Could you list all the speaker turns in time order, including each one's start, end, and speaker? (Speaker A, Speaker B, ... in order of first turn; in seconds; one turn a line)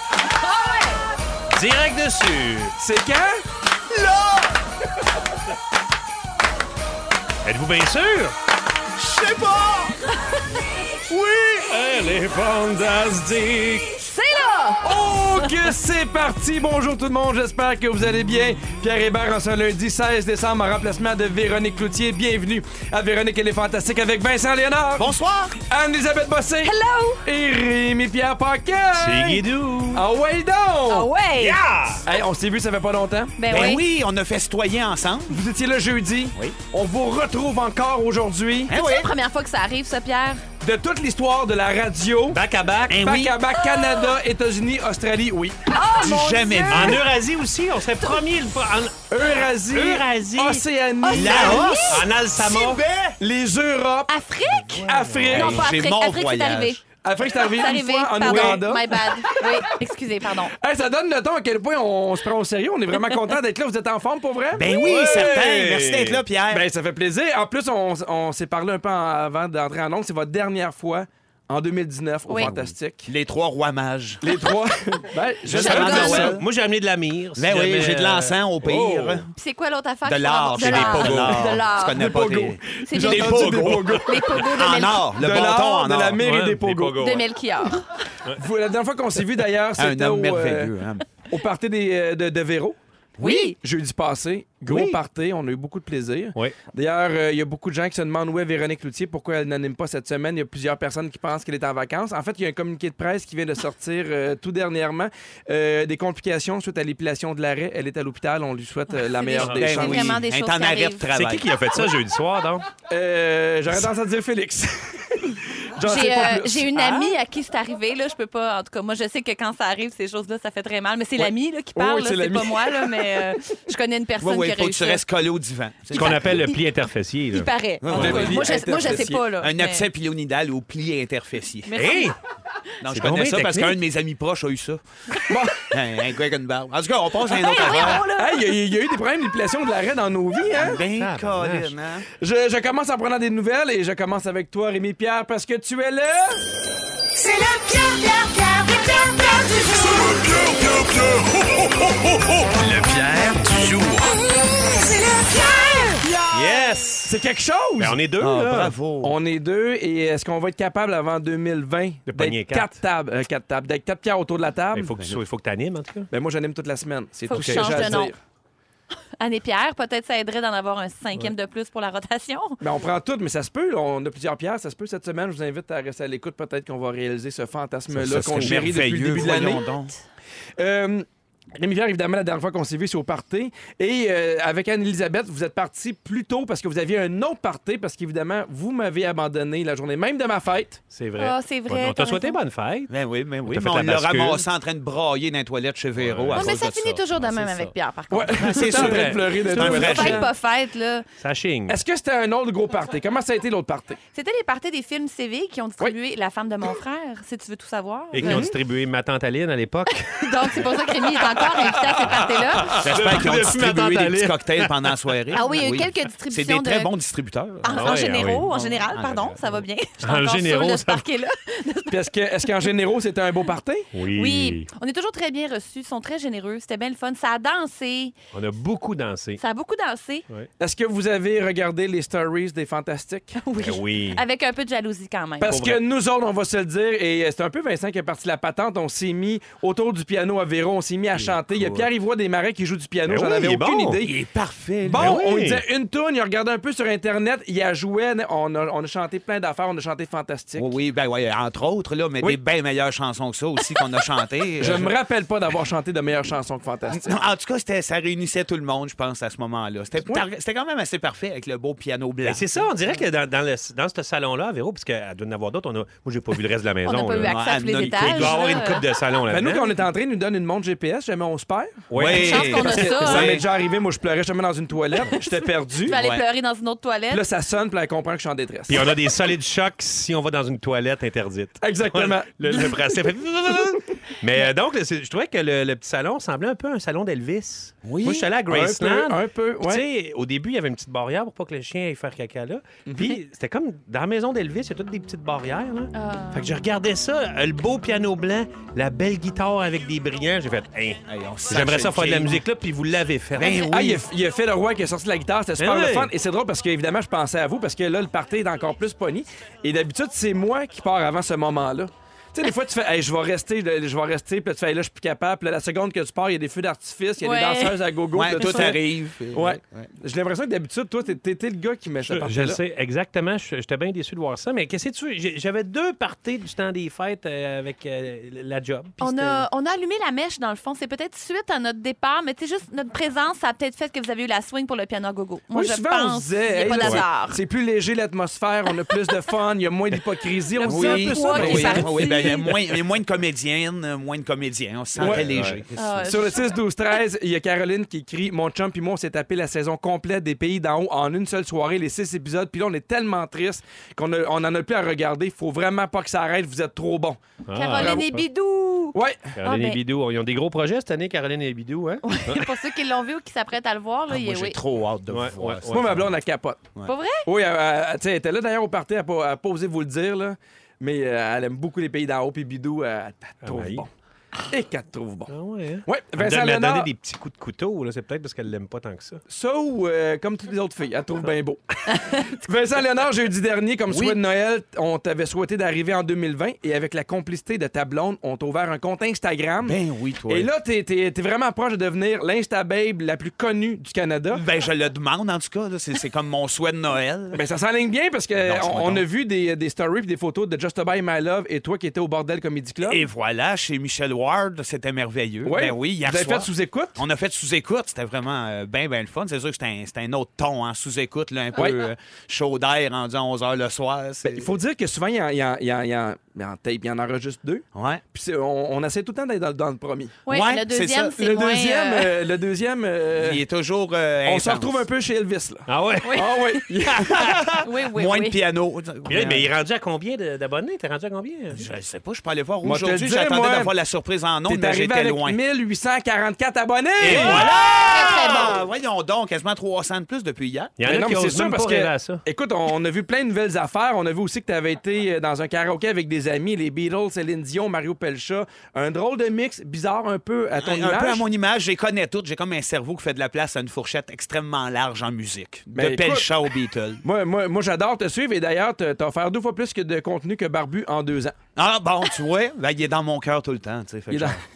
Speaker A: 0.4-1.0
Speaker B: 1.5-2.8
Speaker C: 2.8-3.4
Speaker D: 3.9-4.5
Speaker B: 7.4-8.3
Speaker D: 9.0-9.9
Speaker D: 11.1-11.6
Speaker B: 11.1-14.0
Speaker A: 14.0-14.8
Speaker C: 14.8-25.1
Speaker D: 25.0-25.6
Speaker C: 25.6-26.7
Speaker A: 26.6-27.2
Speaker C: 27.2-31.1
Speaker B: 28.9-30.0
Speaker A: 30.9-31.6
Speaker B: 31.4-32.0
Speaker C: 32.0-33.4
Speaker A: 33.4-33.8
Speaker D: 33.5-35.4
Speaker C: 35.3-38.7
Speaker D: 38.7-39.1
Speaker A: 38.7-40.4
Speaker C: 40.6-42.4
Speaker B: 42.3-43.1
Speaker D: 42.9-43.4
Speaker C: 42.9-45.6
Speaker A: 43.6-44.0
Speaker A: 45.7-47.0
Speaker D: 46.0-47.0
Speaker B: 46.7-50.6
Speaker C: 49.1-51.8
Speaker A: 51.0-52.0
Speaker D: 51.1-53.2
Speaker B: 51.9-52.8
Speaker C: 52.4-54.1
Speaker A: 54.1-56.8
Speaker B: 54.5-55.7
Speaker C: 54.9-55.6
Speaker D: 55.3-56.8
Speaker C: 57.0-59.5
Speaker A: 57.4-60.5
Speaker B: 58.2-58.6
Speaker C: 60.5-65.3
Speaker D: 64.5-66.7
Speaker B: 64.7-66.2
Speaker C: 66.5-73.1
Speaker D: 72.3-74.2
Speaker C: 74.2-76.4
Speaker D: 75.5-76.4
Speaker A: 75.5-76.3
Speaker B: 75.8-79.3
Speaker D: 77.3-79.3
Speaker A: 79.3-82.1
Speaker D: 80.0-86.2
Speaker B: 80.6-81.4
Speaker C: 81.9-84.5
Speaker A: 82.8-85.0
Speaker C: 85.2-87.2
Speaker B: 86.2-87.3
Speaker A: 87.0-87.8
Speaker C: 88.3-92.8
Speaker D: 89.8-91.1
Speaker D: 93.2-93.5
Speaker A: 93.2-93.5
Speaker C: 93.3-110.2
Speaker B: 94.7-95.0
Speaker A: 109.1-111.1
Speaker D: 109.4-111.5
Speaker B: 111.1-112.7
Speaker C: 112.9-117.1
Speaker A: 115.8-125.0
Speaker C: 121.7-123.3
Speaker D: 124.2-126.5
Speaker B: 125.9-128.4
Speaker A: 126.0-126.6
Speaker A: 127.3-129.9
Speaker D: 127.8-131.7
Speaker C: 127.9-129.2
Speaker A: 131.7-132.1
Speaker B: 131.7-132.2
Speaker D: 132.8-134.8
Speaker B: 132.8-133.8
Speaker C: 135.3-135.7
Speaker D: 135.5-138.0
Speaker A: 137.2-138.5
Speaker C: 137.7-140.8
Speaker D: 140.5-142.1
Speaker B: 140.7-141.8
Speaker C: 142.2-146.4
Speaker E: 147.2-150.9
Speaker B: 151.6-151.9
Speaker B: 153.2-153.8
Speaker E: 154.1-156.1
Speaker C: 156.0-158.1
Speaker B: 156.3-157.2
Speaker B: 157.8-158.7
Speaker D: 158.2-159.2
Speaker C: 159.0-165.0
Speaker B: 162.1-162.8
Speaker B: 164.7-166.1
Speaker C: 166.1-168.2
Speaker A: 167.3-168.1
Speaker B: 167.3-168.0
Speaker A: 169.2-172.6
Speaker C: 172.6-179.7
Speaker B: 177.9-178.8
Speaker D: 177.9-180.0
Speaker C: 180.6-190.8
Speaker B: 190.9-192.9
Speaker A: 191.2-192.4
Speaker D: 192.9-197.7
Speaker B: 193.4-194.4
Speaker B: 196.0-196.7
Speaker A: 196.3-198.7
Speaker C: 198.1-200.3
Speaker D: 198.3-200.3
Speaker B: 198.7-200.2
Speaker A: 199.7-201.0
Speaker B: 201.2-201.8
Speaker C: 201.7-204.0
Speaker A: 204.1-208.5
Speaker B: 208.1-214.7
Speaker C: 208.2-208.6
Speaker A: 210.2-212.8
Speaker D: 212.8-217.9
Speaker C: 212.9-213.2
Speaker A: 215.3-216.9
Speaker A: 217.6-222.5
Speaker B: 217.7-218.6
Speaker D: 218.6-219.6
Speaker B: 220.0-221.0
Speaker C: 221.9-223.9
Speaker B: 223.9-224.7
Speaker A: 224.1-228.1
Speaker B: 228.3-229.4
Speaker A: 229.4-230.2
Speaker C: 230.6-233.4
Speaker A: 233.4-235.6
Speaker B: 233.6-234.2
Speaker C: 235.4-244.1
Speaker B: 235.5-235.8
Speaker B: 241.2-241.9
Speaker B: 243.1-244.0
Speaker D: 244.0-245.1
Speaker C: 244.8-250.7
Speaker B: 244.9-245.6
Speaker D: 250.6-254.9
Speaker C: 254.6-257.2
Speaker D: 256.9-262.4
Speaker B: 262.2-269.8
Speaker A: 266.8-268.8
Speaker D: 267.2-268.7
Speaker C: 269.3-276.0
Speaker B: 271.9-272.9
Speaker D: 271.9-273.4
Speaker A: 272.1-273.4
Speaker A: 275.9-277.2
Speaker D: 275.9-276.2
Speaker C: 277.1-278.9
Speaker B: 278.7-303.7
Speaker C: 281.6-283.0
Speaker C: 287.9-289.8
Speaker C: 292.9-293.2
Speaker A: 295.9-296.5
Speaker D: 301.1-302.4
Speaker D: 303.4-304.0
Speaker A: 303.4-303.8
Speaker C: 303.7-322.6
Speaker B: 305.6-306.1
Speaker A: 317.2-317.8
Speaker D: 318.1-319.9
Speaker A: 318.4-318.7
Speaker B: 322.0-329.5
Speaker A: 329.0-337.4
Speaker C: 335.5-342.3
Speaker D: 336.6-336.9
Speaker A: 340.6-342.6
Speaker D: 340.6-346.2
Speaker C: 345.0-345.3
Speaker B: 345.0-345.6
Speaker A: 345.7-346.6
Speaker C: 346.0-357.2
Speaker B: 357.4-358.2
Speaker A: 357.5-359.8
Speaker C: 357.8-358.0
Speaker C: 358.9-359.3
Speaker B: 359.3-362.5
Speaker A: 362.0-364.6
Speaker D: 364.1-366.1
Speaker B: 365.1-366.1
Speaker C: 365.7-366.6
Speaker A: 366.8-367.2
Speaker C: 367.2-373.9
Speaker B: 373.4-373.9
Speaker C: 374.5-375.3
Speaker B: 375.3-379.2
Speaker C: 375.8-376.9
Speaker C: 379.3-389.8
Speaker D: 383.9-384.2
Speaker D: 389.6-390.5
Speaker C: 390.3-394.4
Speaker D: 394.3-397.4
Speaker C: 397.3-403.0
Speaker D: 398.4-399.0
Speaker D: 402.8-414.5
Speaker C: 405.4-407.0
Speaker C: 411.5-411.8
Speaker C: 414.2-420.2
Speaker D: 417.7-418.0
Speaker D: 420.3-421.3
Speaker A: 420.3-422.1
Speaker C: 421.2-423.4
Speaker D: 423.1-424.8
Speaker C: 424.2-427.4
Speaker B: 425.7-426.3
Speaker A: 426.0-426.6
Speaker B: 427.0-427.5
Speaker A: 427.6-428.4
Speaker D: 427.9-429.5
Speaker B: 429.1-431.6
Speaker D: 431.5-435.4
Speaker C: 432.6-433.7
Speaker C: 434.5-437.5
Speaker B: 437.0-437.5
Speaker D: 437.0-440.8
Speaker A: 437.7-438.6
Speaker B: 440.8-442.2
Speaker C: 440.8-451.2
Speaker D: 450.6-457.0
Speaker C: 455.7-456.3
Speaker C: 457.0-461.4
Speaker D: 461.6-464.4
Speaker C: 464.1-464.4